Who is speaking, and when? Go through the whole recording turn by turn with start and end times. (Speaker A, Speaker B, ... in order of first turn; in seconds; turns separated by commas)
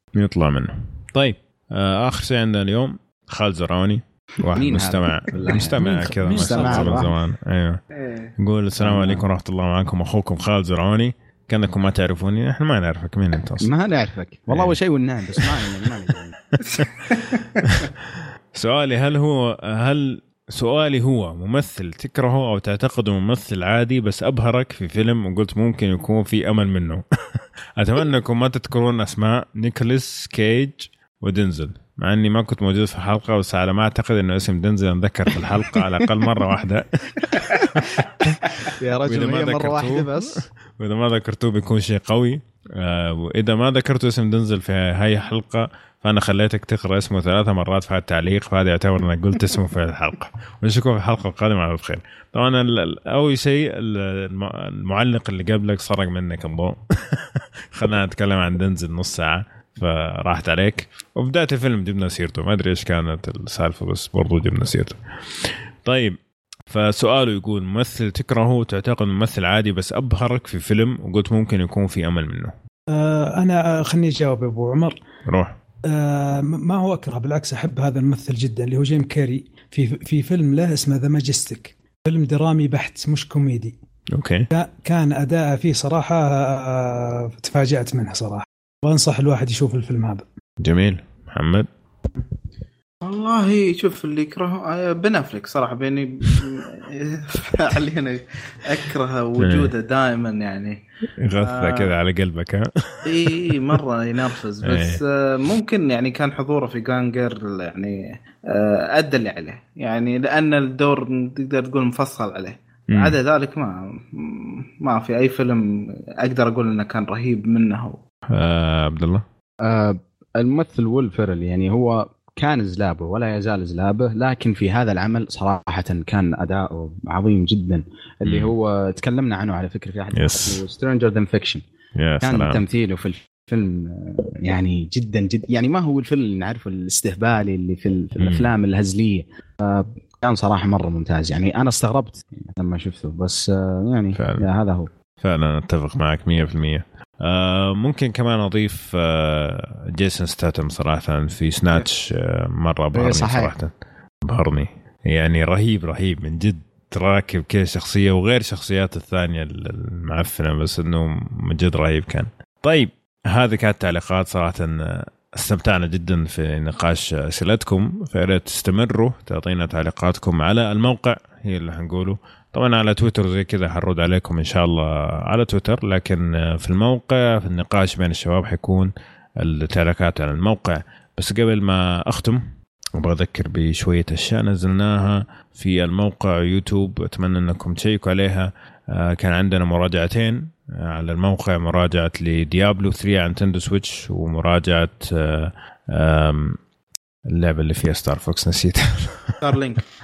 Speaker A: 0.1-7.8, Speaker B: 4.5-7.1, Speaker C: 5.5-7.1, Speaker D: 7.9-8.3, Speaker A: 8.4-13.7, Speaker B: 8.8-9.2, Speaker B: 13.6-16.4, Speaker A: 14.5-14.8, Speaker A: 15.3-15.8, Speaker A: 16.5-17.1, Speaker D: 16.8-17.4, Speaker A: 17.6-66.2, Speaker B: 38.6-40.4, Speaker A: 66.7-72.5, Speaker C: 72.9-75.0, Speaker A: 75.2-75.5, Speaker C: 75.9-83.8, Speaker A: 84.1-84.5, Speaker C: 84.5-90.2, Speaker A: 90.6-91.7, Speaker D: 93.0-100.8, Speaker A: 99.4-99.7, Speaker A: 101.2-103.8, Speaker D: 101.3-101.9, Speaker D: 103.0-118.0, Speaker A: 104.6-105.0, Speaker A: 118.3-119.2, Speaker B: 119.6-131.6, Speaker A: 128.2-128.5, Speaker A: 130.1-130.6, Speaker A: 131.9-132.6, Speaker B: 132.2-144.9, Speaker A: 138.2-138.5, Speaker A: 144.2-144.5, Speaker A: 145.2-153.7, Speaker B: 152.9-153.5, Speaker A: 154.2-182.4, Speaker A: 182.9-196.6, Speaker A: 197.3-199.6, Speaker D: 199.4-199.8